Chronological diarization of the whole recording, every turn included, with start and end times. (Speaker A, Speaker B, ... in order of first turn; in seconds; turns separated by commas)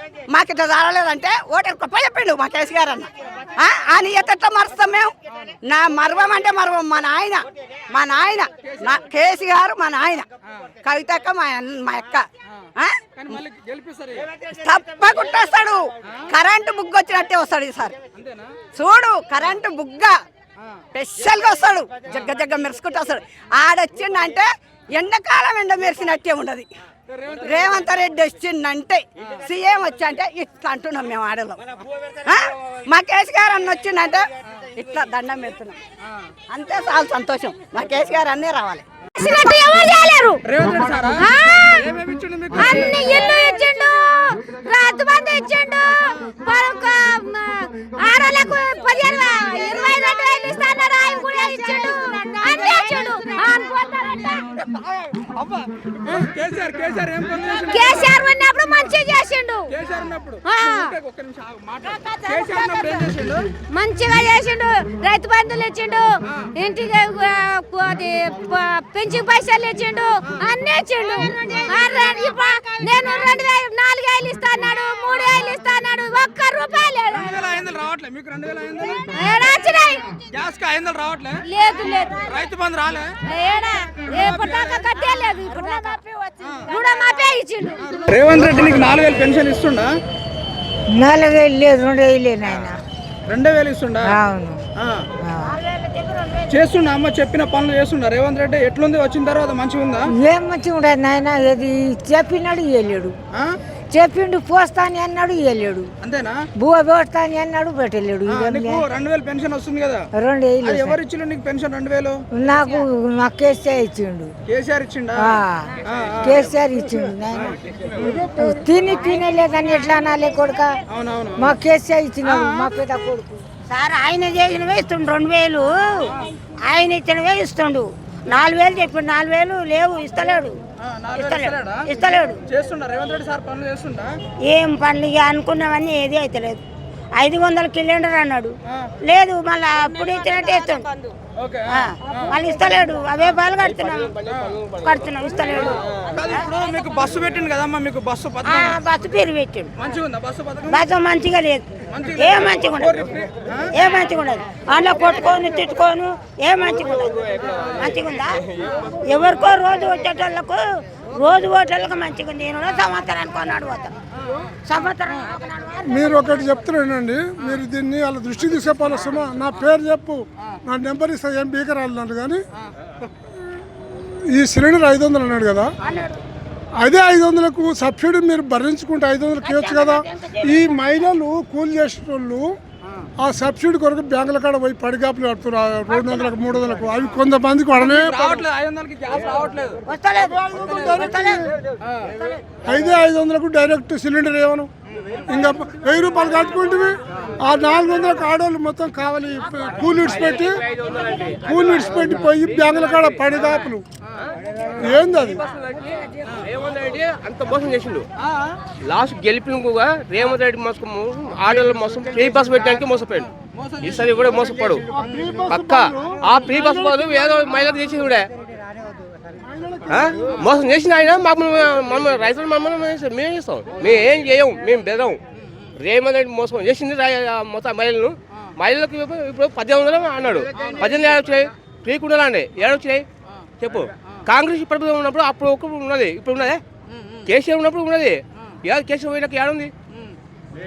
Speaker A: 0.3-5.1, Speaker A: 5.7-10.2, Speaker B: 8.6-9.0, Speaker A: 10.8-12.2, Speaker B: 13.2-14.3, Speaker A: 14.4-17.9, Speaker B: 18.1-18.6, Speaker A: 18.7-20.1, Speaker A: 20.9-26.7, Speaker B: 27.1-27.8, Speaker A: 27.4-31.6, Speaker A: 32.2-34.2, Speaker A: 34.8-35.8, Speaker A: 36.5-38.9, Speaker C: 39.2-40.4, Speaker B: 40.5-43.4, Speaker C: 41.2-41.9, Speaker C: 42.6-54.5, Speaker B: 54.8-58.2, Speaker C: 57.6-59.7, Speaker B: 59.7-63.5, Speaker C: 60.4-61.0, Speaker C: 63.7-77.3, Speaker B: 77.1-79.1, Speaker C: 79.1-80.1, Speaker B: 80.3-81.4, Speaker C: 81.5-82.2, Speaker B: 82.1-83.1, Speaker C: 83.3-86.0, Speaker B: 84.1-85.0, Speaker B: 86.4-86.7, Speaker C: 86.7-87.8, Speaker B: 87.8-89.9, Speaker D: 91.0-92.8, Speaker B: 93.3-94.1, Speaker D: 94.0-94.6, Speaker B: 94.8-95.0, Speaker D: 95.2-95.6, Speaker E: 95.5-96.4, Speaker B: 96.5-100.0, Speaker D: 100.2-103.2, Speaker D: 103.9-105.9, Speaker B: 106.0-106.4, Speaker D: 106.6-108.8, Speaker B: 108.3-110.1, Speaker D: 110.2-111.0, Speaker B: 110.6-112.2, Speaker D: 112.3-114.3, Speaker B: 114.5-115.1, Speaker D: 115.2-117.5, Speaker B: 115.9-116.3, Speaker B: 118.0-118.2, Speaker D: 118.1-120.8, Speaker B: 120.9-121.5, Speaker D: 121.4-123.4, Speaker E: 123.7-126.0, Speaker E: 126.7-130.6, Speaker B: 130.8-131.9, Speaker E: 131.2-132.4, Speaker B: 132.5-134.1, Speaker E: 134.5-136.6, Speaker E: 137.2-140.9, Speaker B: 141.4-142.8, Speaker E: 141.7-144.2, Speaker B: 144.3-144.5, Speaker E: 144.7-145.7, Speaker B: 145.5-148.8, Speaker E: 148.4-149.7, Speaker B: 149.8-150.9, Speaker E: 150.7-152.9, Speaker B: 151.9-153.7, Speaker E: 153.8-157.2, Speaker E: 157.8-158.3, Speaker E: 159.1-160.6, Speaker E: 161.1-163.9, Speaker E: 164.7-166.2, Speaker F: 165.9-172.4, Speaker F: 173.5-175.7, Speaker E: 175.8-176.2, Speaker F: 176.8-182.6, Speaker E: 179.4-180.5, Speaker F: 183.2-188.3, Speaker B: 187.8-189.8, Speaker E: 189.9-191.4, Speaker F: 190.4-191.5, Speaker B: 191.8-192.1, Speaker F: 192.7-194.7, Speaker F: 195.3-200.6, Speaker G: 200.2-201.5, Speaker F: 201.4-203.8, Speaker F: 204.8-205.4, Speaker G: 205.4-208.1, Speaker B: 208.2-208.5, Speaker G: 208.8-213.3, Speaker B: 213.4-214.3, Speaker G: 213.8-214.9, Speaker F: 214.9-217.5, Speaker G: 215.5-218.3, Speaker F: 219.4-220.1, Speaker G: 219.9-225.2, Speaker G: 225.8-233.1, Speaker B: 230.6-231.1, Speaker G: 233.6-236.6, Speaker G: 237.3-239.7